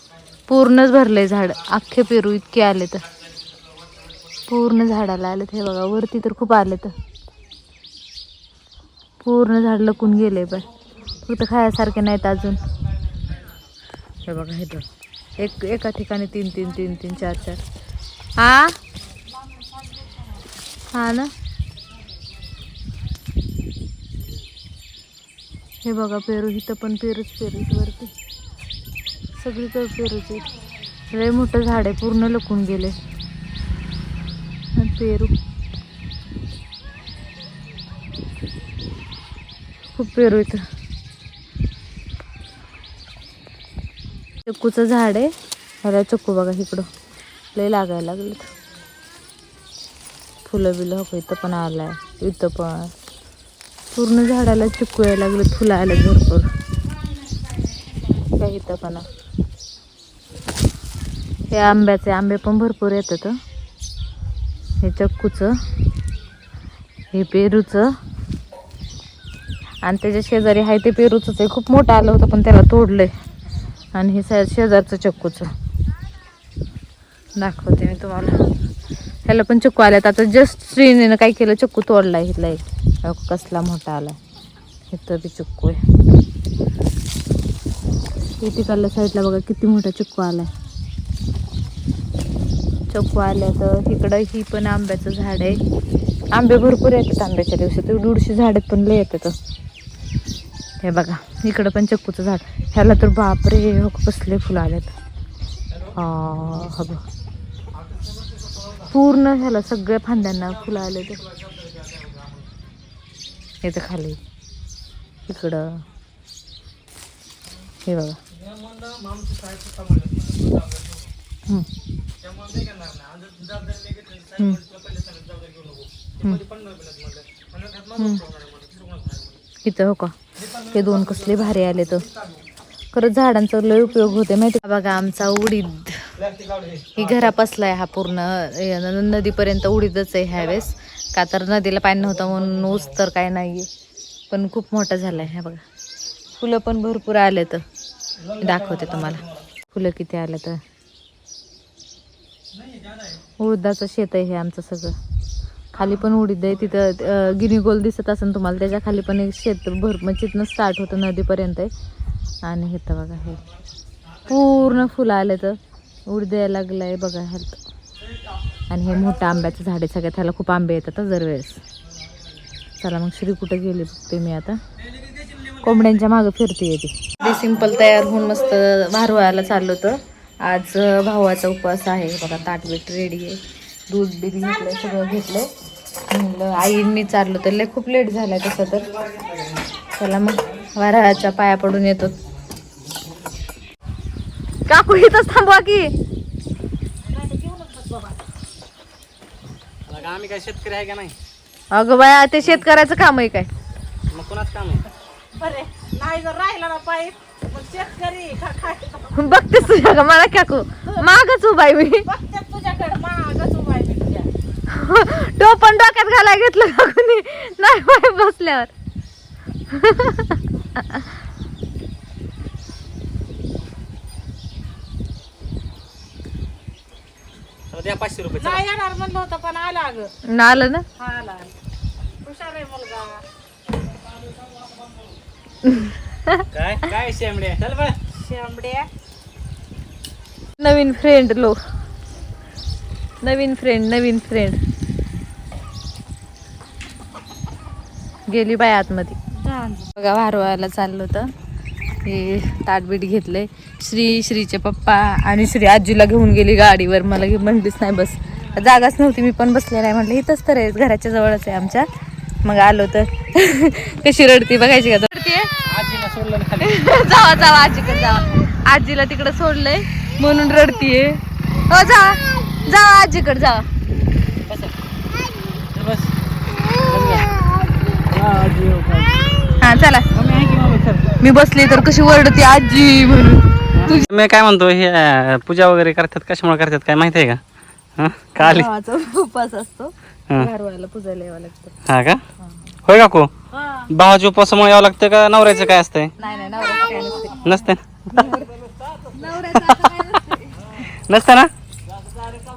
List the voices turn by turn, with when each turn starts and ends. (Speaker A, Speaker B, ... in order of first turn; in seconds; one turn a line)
Speaker A: 0.5-3.0
Speaker A: 4.5-6.9
Speaker A: 9.2-10.6
Speaker A: 11.2-12.6
Speaker A: 14.2-14.8
Speaker A: 15.4-17.6
Speaker A: 18.4-18.8
Speaker A: 20.9-21.3
Speaker A: 25.8-28.1
Speaker A: 29.4-30.4
Speaker A: 31.1-32.9
Speaker A: 34.8-35.3
Speaker A: 39.9-40.6
Speaker A: 44.5-45.3
Speaker A: 45.8-46.9
Speaker A: 47.5-48.5
Speaker A: 50.5-52.9
Speaker A: 53.9-56.5
Speaker A: 58.3-59.0
Speaker A: 61.5-63.4
Speaker A: 64.8-65.6
Speaker A: 67.1-67.9
Speaker A: 69.8-73.1
Speaker A: 73.9-75.5
Speaker A: 77.3-78.5
Speaker A: 79.3-84.2
Speaker A: 84.9-85.8
Speaker A: 88.4-90.5
Speaker A: 92.9-95.6
Speaker A: 96.3-99.3
Speaker A: 100.8-104.9
Speaker A: 105.9-107.0
Speaker A: 108.8-111.2
Speaker A: 113.6-114.2
Speaker A: 115.3-115.8
Speaker A: 117.8-118.2
Speaker A: 127.9-128.2
Speaker A: 129.6-132.1
Speaker A: 132.9-136.1
Speaker A: 136.9-143.7
Speaker A: 144.3-145.6
Speaker A: 146.4-147.6
Speaker A: 148.3-150.6
Speaker A: 153.4-154.9
Speaker A: 155.7-161.7
Speaker A: 162.4-163.4
Speaker A: 164.2-167.6
Speaker A: 168.7-171.6
Speaker A: 172.8-174.6
Speaker A: 175.6-185.5
Speaker A: 186.1-188.9
Speaker A: 189.9-192.1
Speaker A: 194.7-195.9
Speaker B: 197.1-198.2
Speaker C: 199.9-201.1
Speaker A: 201.7-203.5
Speaker C: 204.1-204.8
Speaker B: 205.3-209.3
Speaker A: 209.1-212.1
Speaker B: 212.1-214.3
Speaker A: 214.7-218.7
Speaker A: 219.7-221.0
Speaker C: 227.7-228.6
Speaker B: 228.4-230.1
Speaker A: 230.3-230.8
Speaker B: 231.0-231.5
Speaker B: 232.2-233.2
Speaker A: 235.6-236.4
Speaker C: 236.5-237.9
Speaker B: 238.1-238.9
Speaker A: 240.6-241.6
Speaker A: 243.2-244.6
Speaker A: 248.3-249.2
Speaker B: 249.4-249.9
Speaker A: 249.9-251.3
Speaker A: 252.0-261.9
Speaker A: 262.4-265.5
Speaker C: 265.6-266.9
Speaker A: 266.6-273.7
Speaker C: 274.2-274.7
Speaker C: 275.7-276.1
Speaker C: 276.8-277.3
Speaker B: 278.1-279.0
Speaker A: 279.6-280.1
Speaker B: 280.2-281.0
Speaker A: 281.2-284.1
Speaker C: 283.7-287.4
Speaker C: 288.0-288.7
Speaker A: 288.4-291.7
Speaker C: 291.9-292.2
Speaker A: 292.4-292.7
Speaker C: 292.9-293.3
Speaker C: 293.9-296.1
Speaker A: 296.2-297.5
Speaker B: 296.7-297.3
Speaker C: 297.4-297.8
Speaker A: 298.1-298.5
Speaker A: 299.1-300.8
Speaker C: 299.5-299.9
Speaker C: 301.1-301.5